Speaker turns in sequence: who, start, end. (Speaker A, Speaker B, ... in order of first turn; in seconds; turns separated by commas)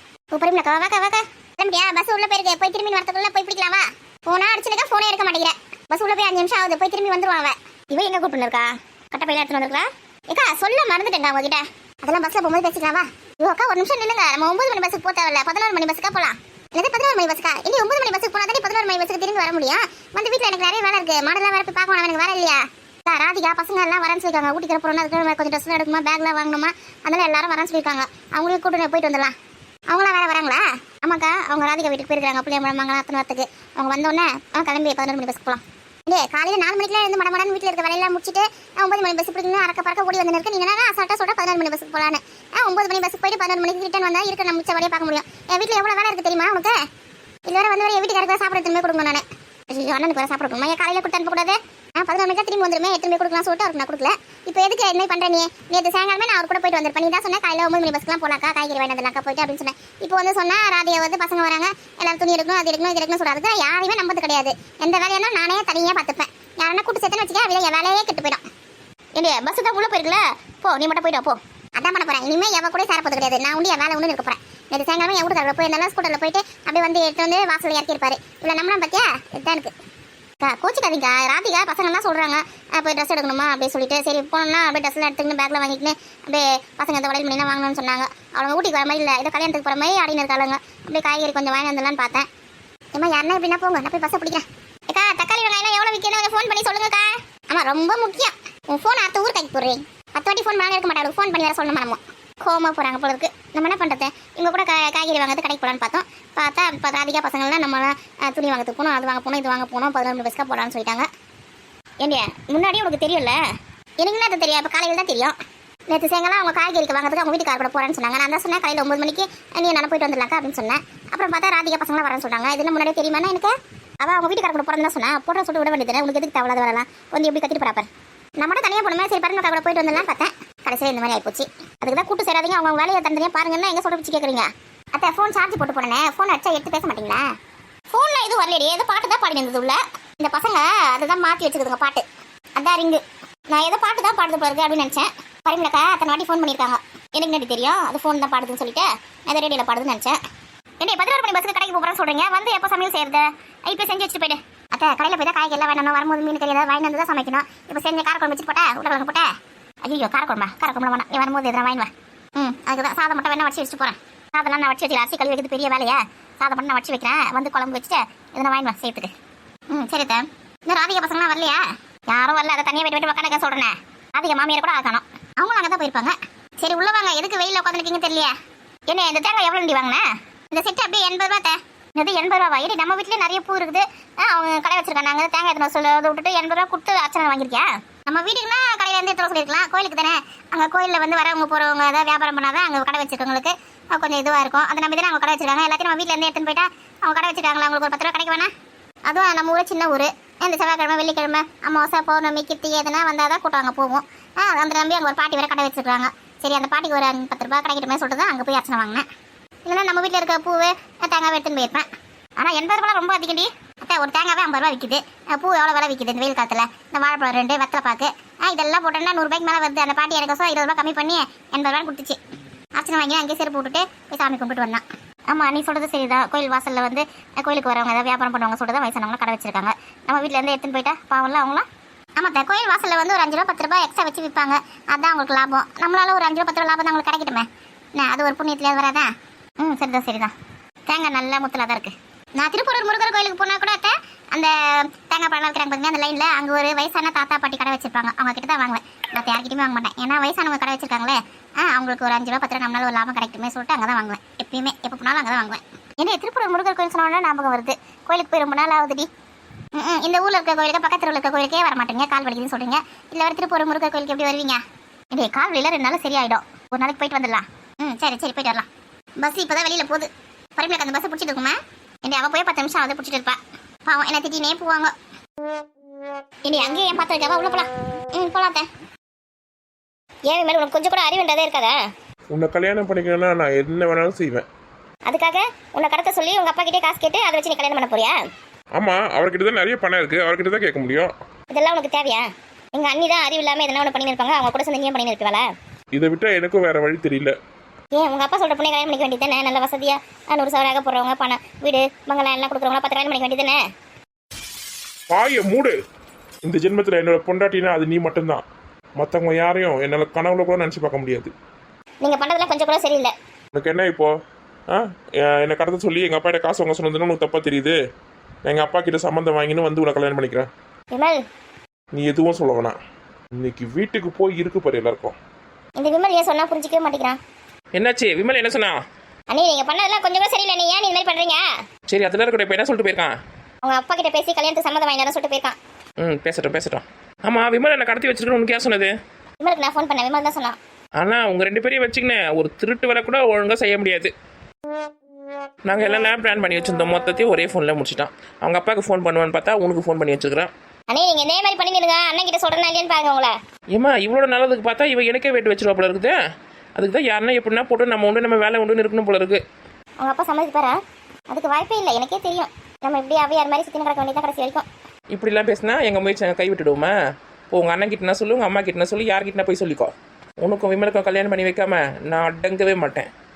Speaker A: 0.3-29.3, Speaker A: 29.9-46.8, Speaker A: 47.5-68.4, Speaker A: 69.2-79.7, Speaker A: 80.4-92.2, Speaker A: 92.9-111.1, Speaker A: 112.0-113.4, Speaker A: 114.0-115.3, Speaker A: 115.9-127.9, Speaker A: 128.4-137.2, Speaker A: 137.9-142.0, Speaker A: 142.6-150.2, Speaker A: 150.8-159.3, Speaker A: 159.8-169.1, Speaker A: 169.7-178.3, Speaker A: 178.9-198.5, Speaker A: 199.1-209.1, Speaker A: 209.7-211.9, Speaker A: 212.4-222.2, Speaker A: 222.8-231.7, Speaker A: 232.2-237.5, Speaker A: 238.0-239.1, Speaker A: 239.6-240.3, Speaker A: 240.9-259.1, Speaker A: 259.8-264.6, Speaker A: 265.1-268.7, Speaker A: 269.2-274.9, Speaker A: 276.5-278.7, Speaker A: 280.3-281.8, Speaker B: 282.3-284.5, Speaker A: 285.1-288.2, Speaker B: 288.8-291.1, Speaker A: 291.5-295.5, Speaker B: 295.9-297.4, Speaker A: 297.9-303.6, Speaker B: 305.1-305.8, Speaker B: 306.4-308.4, Speaker B: 309.0-311.3, Speaker A: 312.0-313.1, Speaker B: 313.6-314.1, Speaker B: 314.7-317.8, Speaker B: 318.4-320.5, Speaker A: 320.9-321.2, Speaker B: 321.9-322.8, Speaker B: 323.4-325.2, Speaker A: 325.8-327.2, Speaker C: 327.7-328.8, Speaker A: 329.3-331.4, Speaker C: 331.9-333.1, Speaker A: 333.6-335.6, Speaker C: 336.0-338.9, Speaker A: 339.4-340.6, Speaker C: 341.0-344.1, Speaker C: 345.6-350.5, Speaker A: 350.9-353.4, Speaker C: 353.7-356.2, Speaker C: 356.8-359.4, Speaker A: 360.0-360.8, Speaker A: 361.3-364.7, Speaker C: 365.1-366.9, Speaker C: 367.5-373.1